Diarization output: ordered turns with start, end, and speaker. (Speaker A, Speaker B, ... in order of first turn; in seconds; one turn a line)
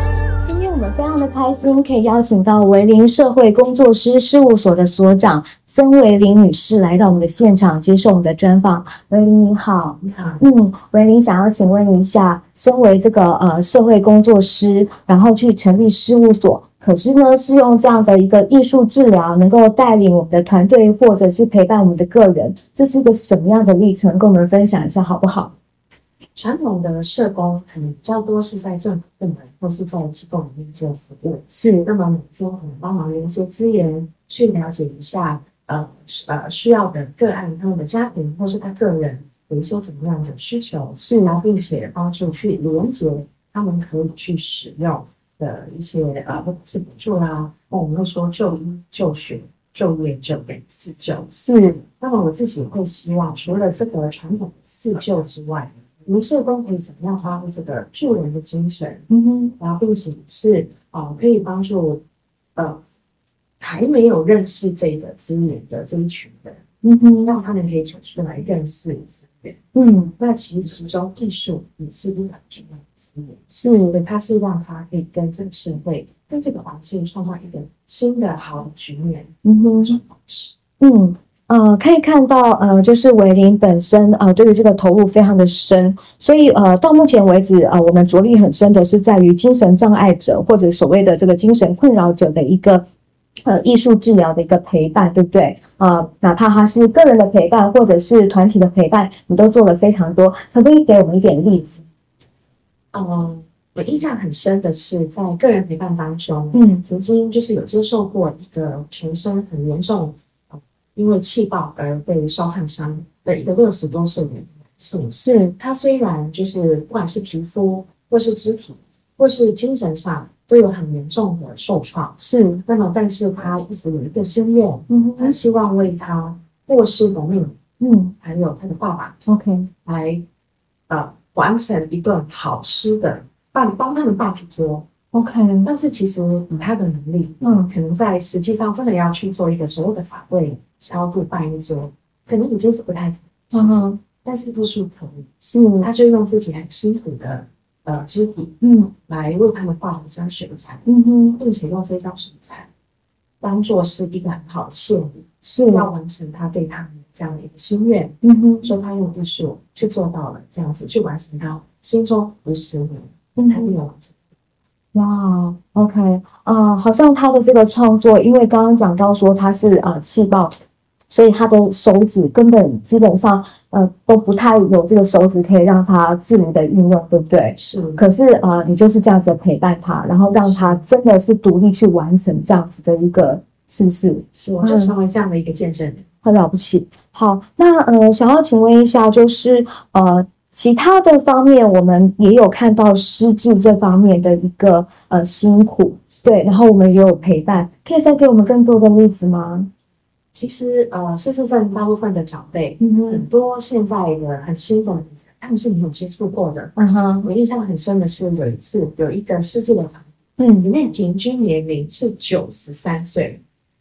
Speaker A: 0.4-25.5
Speaker B: 10.0-10.4
Speaker B: 26.3-59.0
Speaker A: 31.5-31.9
Speaker A: 41.0-41.4
Speaker A: 51.3-51.8
Speaker A: 59.1-59.5
Speaker B: 59.6-62.0
Speaker B: 62.5-62.8
Speaker B: 63.6-66.6
Speaker A: 66.8-67.4
Speaker B: 67.2-69.6
Speaker A: 69.7-70.1
Speaker B: 70.2-80.5
Speaker A: 73.5-74.0
Speaker A: 79.4-80.0
Speaker A: 80.8-92.8
Speaker A: 93.4-101.8
Speaker B: 102.9-127.5
Speaker A: 106.5-106.8
Speaker A: 115.1-115.5
Speaker A: 122.2-122.6
Speaker A: 124.9-125.4
Speaker A: 127.8-128.1
Speaker B: 128.2-129.2
Speaker A: 129.2-129.7
Speaker B: 129.8-130.2
Speaker B: 130.9-134.9
Speaker A: 135.1-135.7
Speaker B: 135.6-152.7
Speaker A: 137.4-137.7
Speaker A: 143.5-144.0
Speaker A: 145.5-145.9
Speaker A: 148.6-148.9
Speaker A: 150.8-151.4
Speaker B: 153.4-164.3
Speaker A: 155.4-155.9
Speaker A: 158.2-158.7
Speaker A: 163.3-163.8
Speaker A: 164.9-170.5
Speaker A: 171.1-184.9
Speaker B: 177.6-178.1
Speaker B: 180.2-180.9
Speaker B: 184.3-186.0
Speaker A: 186.2-199.7
Speaker B: 200.3-213.4
Speaker A: 202.8-203.3
Speaker A: 206.8-207.3
Speaker A: 210.4-210.7